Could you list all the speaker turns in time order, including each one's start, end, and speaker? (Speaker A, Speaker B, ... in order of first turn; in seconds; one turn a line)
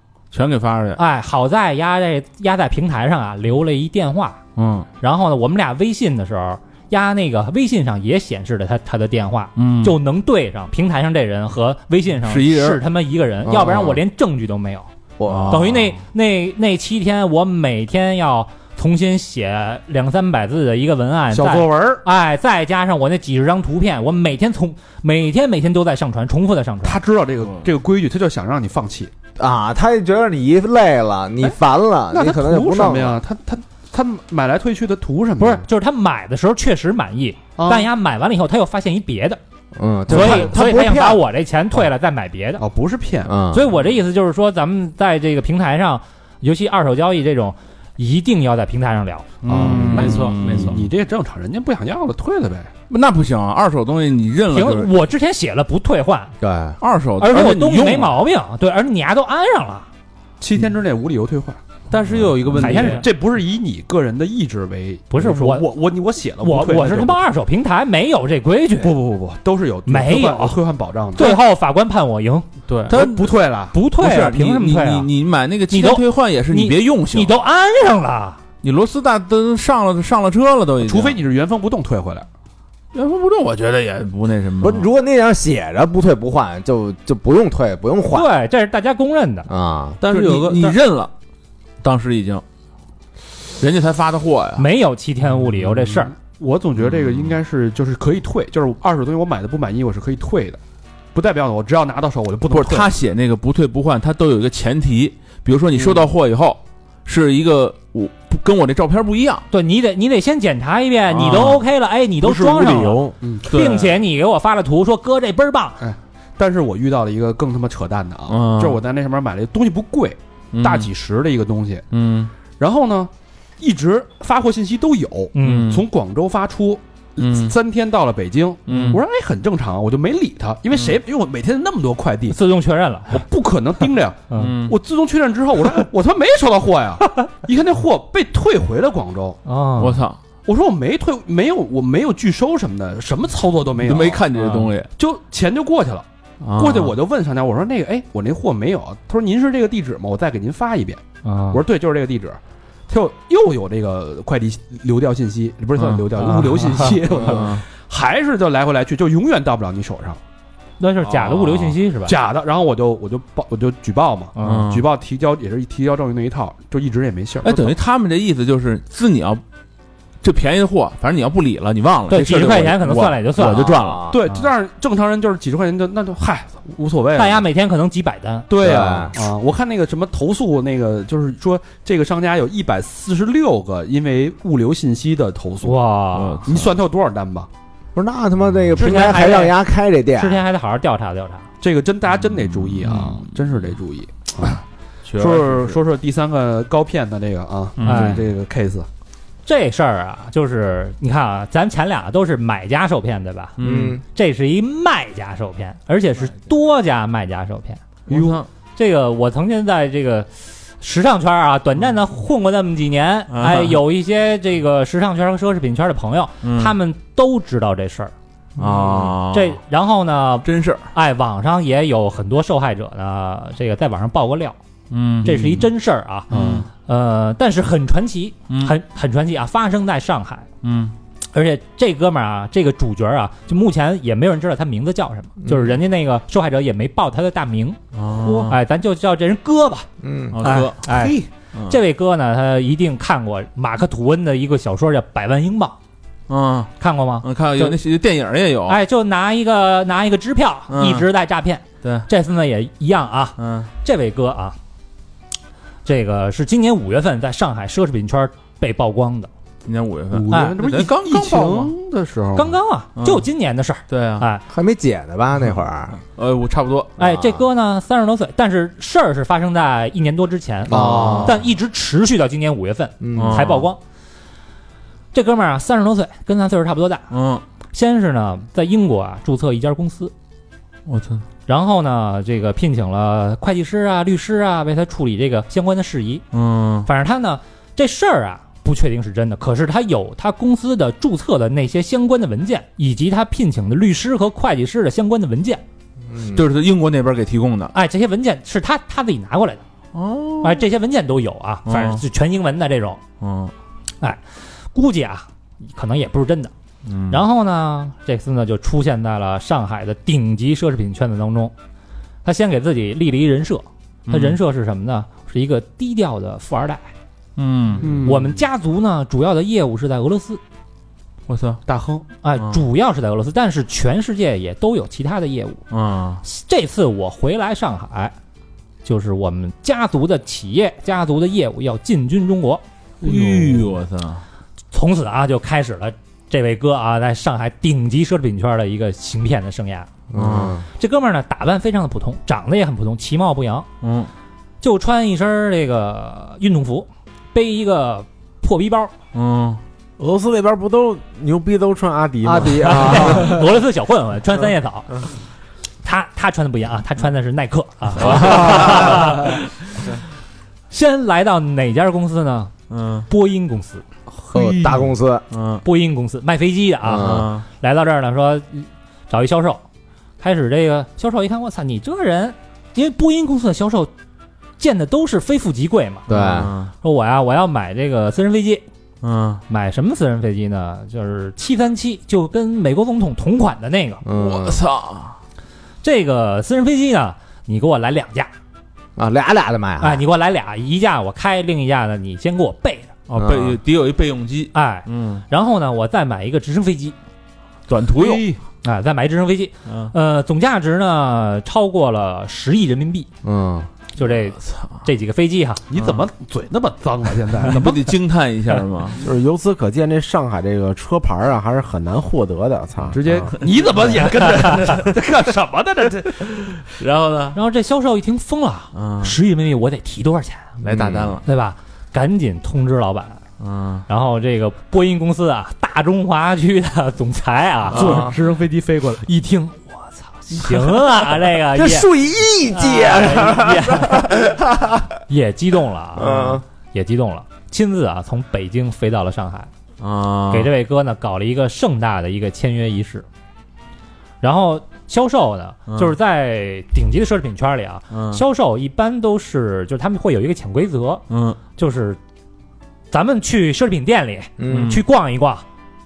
Speaker A: 0.3-1.0
Speaker B: 1.0-4.4
Speaker A: 4.5-4.9
Speaker B: 5.0-14.9
Speaker A: 9.6-10.0
Speaker A: 12.2-12.8
Speaker C: 13.4-14.0
Speaker C: 15.2-15.7
Speaker A: 15.3-16.0
Speaker B: 15.5-27.0
Speaker D: 21.3-22.0
Speaker D: 26.8-29.1
Speaker C: 29.4-33.2
Speaker D: 32.1-35.6
Speaker B: 35.4-39.4
Speaker D: 37.6-37.9
Speaker C: 39.8-41.2
Speaker B: 40.1-42.6
Speaker D: 40.1-40.5
Speaker D: 42.6-43.3
Speaker C: 43.2-43.7
Speaker B: 43.5-49.4
Speaker A: 49.4-50.8
Speaker C: 49.5-50.1
Speaker D: 49.5-52.7
Speaker E: 49.9-50.8
Speaker A: 52.9-54.9
Speaker B: 54.5-56.3
Speaker C: 56.4-56.8
Speaker A: 56.8-58.2
Speaker B: 57.2-59.9
Speaker D: 60.4-61.6
Speaker E: 61.9-63.0
Speaker D: 62.5-67.2
Speaker B: 62.6-63.0
Speaker B: 65.1-65.7
Speaker B: 66.4-69.0
Speaker D: 68.7-71.4
Speaker B: 69.9-70.6
Speaker B: 71.1-72.5
Speaker E: 72.7-73.0
Speaker D: 72.9-73.8
Speaker A: 72.9-73.3
Speaker B: 73.7-75.1
Speaker A: 73.9-77.3
Speaker B: 75.7-78.4
Speaker A: 78.6-81.1
Speaker D: 80.8-82.3
Speaker A: 82.9-84.8
Speaker C: 84.6-88.3
Speaker B: 88.1-89.5
Speaker C: 89.5-90.0
Speaker E: 90.0-90.7
Speaker A: 90.0-91.1
Speaker A: 91.8-92.4
Speaker A: 93.6-94.7
Speaker B: 94.6-96.1
Speaker D: 96.0-100.6
Speaker D: 101.1-102.9
Speaker A: 102.5-109.4
Speaker B: 109.5-115.8
Speaker A: 111.1-111.6
Speaker F: 112.2-113.1
Speaker D: 113.2-113.5
Speaker A: 113.5-113.9
Speaker D: 115.8-121.8
Speaker A: 118.3-118.8
Speaker A: 120.5-120.9
Speaker A: 121.9-122.3
Speaker D: 122.6-132.4
Speaker B: 125.3-125.7
Speaker A: 125.4-125.9
Speaker A: 127.2-127.5
Speaker A: 128.7-129.0
Speaker B: 128.7-129.0
Speaker B: 132.3-133.2
Speaker D: 133.1-139.4
Speaker A: 134.3-134.8
Speaker B: 139.4-140.0
Speaker A: 139.8-140.2
Speaker D: 140.4-144.3
Speaker A: 143.8-144.9
Speaker B: 144.3-144.7
Speaker D: 145.0-160.2
Speaker A: 146.4-146.9
Speaker B: 151.2-151.6
Speaker A: 155.8-156.0
Speaker B: 156.6-157.0
Speaker A: 157.2-157.6
Speaker B: 160.8-162.1
Speaker A: 161.0-161.8
Speaker D: 162.1-167.8
Speaker B: 164.3-164.7
Speaker A: 164.4-164.8
Speaker A: 167.4-169.4
Speaker A: 170.2-174.4
Speaker B: 172.1-173.8
Speaker C: 173.5-174.2
Speaker D: 174.1-177.4
Speaker B: 177.2-178.5
Speaker D: 178.5-185.8
Speaker C: 178.6-179.1
Speaker B: 185.6-186.4
Speaker A: 186.1-186.7
Speaker D: 186.4-187.5
Speaker C: 187.9-190.4
Speaker B: 188.8-189.6
Speaker B: 190.1-191.4
Speaker D: 191.6-194.6
Speaker A: 192.4-193.3
Speaker A: 195.0-195.8
Speaker D: 195.1-198.9
Speaker A: 197.8-198.2
Speaker B: 197.8-198.2
Speaker B: 199.4-203.5
Speaker A: 203.6-204.0
Speaker C: 203.6-204.0
Speaker B: 204.1-210.3
Speaker A: 208.1-208.5
Speaker B: 210.8-218.1
Speaker A: 213.3-213.8
Speaker A: 216.4-216.7
Speaker A: 218.6-219.6
Speaker B: 218.7-224.6
Speaker A: 220.4-220.9
Speaker A: 224.9-225.7
Speaker B: 225.2-230.5
Speaker A: 226.3-226.7
Speaker D: 226.3-226.6
Speaker A: 228.5-228.7
Speaker A: 230.6-230.9
Speaker B: 231.3-239.9
Speaker C: 235.4-235.7
Speaker A: 237.9-238.6
Speaker C: 240.0-240.4
Speaker A: 240.3-241.8
Speaker B: 240.4-245.8
Speaker D: 240.9-241.2
Speaker A: 246.3-246.7
Speaker B: 246.8-247.8
Speaker A: 247.2-248.8
Speaker B: 248.7-254.6
Speaker A: 250.7-251.1
Speaker A: 251.8-252.1
Speaker A: 253.4-253.7
Speaker B: 255.8-259.3
Speaker A: 259.6-261.7
Speaker D: 260.1-262.6
Speaker B: 260.3-260.6
Speaker B: 262.3-264.4
Speaker A: 263.0-263.3
Speaker A: 263.9-264.3
Speaker C: 264.5-265.9
Speaker A: 265.9-267.0
Speaker C: 267.0-267.4
Speaker B: 267.0-270.7
Speaker C: 270.7-271.4
Speaker A: 270.7-271.3
Speaker D: 270.7-271.1
Speaker B: 271.2-273.8
Speaker C: 273.0-273.5
Speaker A: 273.1-273.7
Speaker B: 275.1-277.1
Speaker A: 277.1-277.4
Speaker B: 277.7-280.1
Speaker A: 280.9-281.2
Speaker B: 281.5-286.2
Speaker A: 286.3-286.9
Speaker B: 286.9-295.6
Speaker C: 296.1-296.5
Speaker A: 296.3-297.7
Speaker B: 297.7-299.6
Speaker A: 299.9-300.6
Speaker B: 300.4-303.0
Speaker A: 301.6-302.0
Speaker A: 303.2-303.5
Speaker B: 304.0-306.5
Speaker A: 306.8-307.2
Speaker B: 307.1-311.5
Speaker B: 312.2-316.9
Speaker A: 314.1-314.4
Speaker A: 317.4-318.0
Speaker D: 317.8-318.4
Speaker B: 318.0-320.4
Speaker A: 321.3-321.6
Speaker D: 321.6-322.0
Speaker B: 322.2-325.6
Speaker A: 325.7-326.2
Speaker B: 326.2-328.1
Speaker B: 328.8-333.6
Speaker A: 333.0-334.2
Speaker B: 334.7-339.9
Speaker C: 340.1-340.6
Speaker A: 340.2-340.6
Speaker B: 340.8-343.7
Speaker A: 343.8-344.1
Speaker B: 344.6-348.9
Speaker A: 349.1-349.6
Speaker F: 350.0-353.4
Speaker C: 352.2-353.4
Speaker B: 352.6-355.1
Speaker B: 355.8-360.0
Speaker A: 357.9-359.3
Speaker B: 360.7-362.5
Speaker A: 362.7-363.1
Speaker B: 363.1-363.8
Speaker D: 364.2-364.9
Speaker C: 364.3-365.2
Speaker A: 365.3-365.6
Speaker B: 365.6-369.6
Speaker C: 366.8-367.3
Speaker A: 366.9-367.4
Speaker B: 370.2-373.9
Speaker B: 374.6-376.1
Speaker C: 376.1-376.5
Speaker A: 376.1-376.7
Speaker B: 376.8-378.6
Speaker A: 379.0-379.4
Speaker B: 379.5-384.0
Speaker C: 384.0-384.6
Speaker A: 384.1-385.2
Speaker B: 385.8-388.3
Speaker C: 388.9-390.0
Speaker B: 389.8-393.0
Speaker A: 393.1-395.2
Speaker C: 393.2-393.6
Speaker B: 394.5-396.9
Speaker A: 397.7-398.3
Speaker D: 397.9-398.4
Speaker B: 398.6-403.1
Speaker A: 399.7-399.9
Speaker C: 403.2-403.7
Speaker B: 403.9-405.6
Speaker A: 404.0-404.8
Speaker D: 405.7-407.9
Speaker A: 405.8-406.0
Speaker A: 407.4-409.0
Speaker F: 409.0-413.0
Speaker D: 412.9-416.6
Speaker A: 416.7-417.4
Speaker B: 417.3-420.5
Speaker A: 418.7-419.1
Speaker A: 420.6-421.2
Speaker C: 420.7-421.2
Speaker B: 421.2-423.2
Speaker A: 423.4-423.9
Speaker B: 423.9-428.1
Speaker A: 427.7-428.1
Speaker D: 427.7-429.1
Speaker B: 429.0-431.9
Speaker C: 431.5-434.8
Speaker B: 432.5-434.1
Speaker B: 435.1-439.5
Speaker C: 435.9-436.4
Speaker A: 439.8-440.5
Speaker B: 440.3-443.1
Speaker B: 444.2-452.0
Speaker A: 445.7-445.9
Speaker A: 447.9-448.2
Speaker A: 451.1-451.4
Speaker B: 452.9-455.4
Speaker C: 454.4-454.7
Speaker A: 454.5-454.8